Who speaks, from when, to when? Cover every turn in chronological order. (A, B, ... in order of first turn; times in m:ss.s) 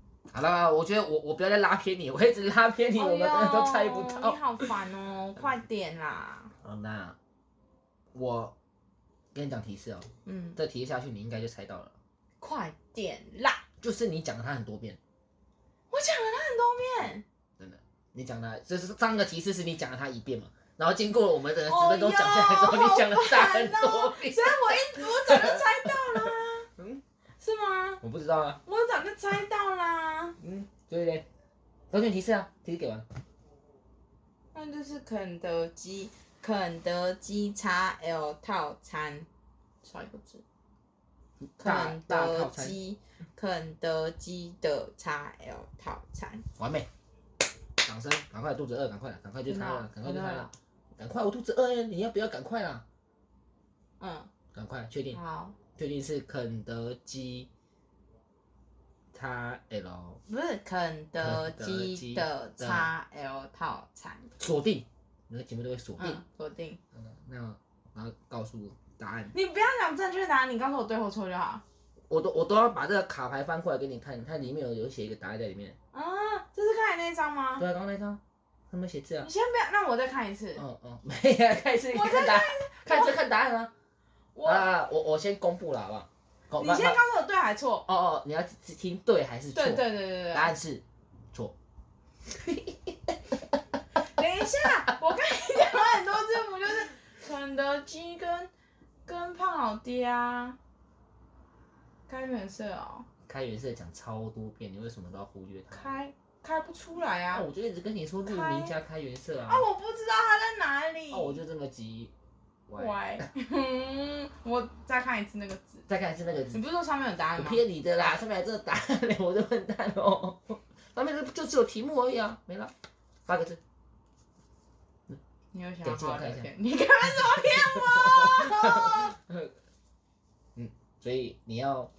0:00.3-0:04.7 A
0:02.9-0:06.5 B
0:06.6-0:07.2 A
0:08.1-0:08.5 A
0:09.3-0:11.9 A
0:10.2-0:10.6 B
0:12.4-0:13.6 B
0:13.8-0:15.0 A
0:15.9-0:17.2 B
0:17.6-0:27.0 A
0:21.6-0:26.7 B
0:27.4-0:28.0 B
0:28.0-0:28.6 A
0:28.6-0:30.4 B
0:30.4-0:31.3 A
0:31.9-0:33.0 A
0:34.5-0:39.3 B
0:39.8-0:40.4 B
0:41.6-0:42.8 A
0:41.6-0:46.4 B
0:46.6-0:46.9 A
0:47.8-0:52.8 A
0:49.4-0:50.5 B
0:54.0-0:54.3 B
0:54.5-0:55.2 A
0:55.1-0:55.6 B
0:55.7-0:57.5 A
0:59.1-1:00.2 A
1:00.3-1:04.3 B
1:01.2-1:02.9 A
1:04.4-1:06.2 A
1:06.0-1:06.8 B
1:06.9-1:09.3 A
1:09.3-1:11.6 B
1:12.1-1:15.8 A
1:15.9-1:17.6 B
1:17.6-1:19.3 A
1:19.2-1:20.6 B
1:20.6-1:23.7 A
1:21.9-1:23.2 B
1:24.3-1:24.7 B
1:24.4-1:27.0 A
1:26.6-1:27.8 B
1:27.9-1:31.5 A
1:29.5-1:30.5 B
1:32.3-1:33.4 A
1:34.2-1:38.5 B
1:39.0-1:40.6 B
1:42.1-1:43.1 B
1:43.2-1:45.9 A
1:45.7-1:47.5 B
1:47.3-1:49.6 A
1:48.2-1:48.7 B
1:49.4-1:51.4 B
1:51.1-1:52.1 A
1:52.7-1:53.2 A
1:52.7-1:55.9 B
1:55.9-1:56.6 A
1:56.5-1:57.6 B
1:57.4-2:02.7 A
2:03.2-2:03.6 A
2:05.5-2:09.1 B
2:05.8-2:06.5 A
2:07.2-2:09.5 A
2:10.6-2:11.9 A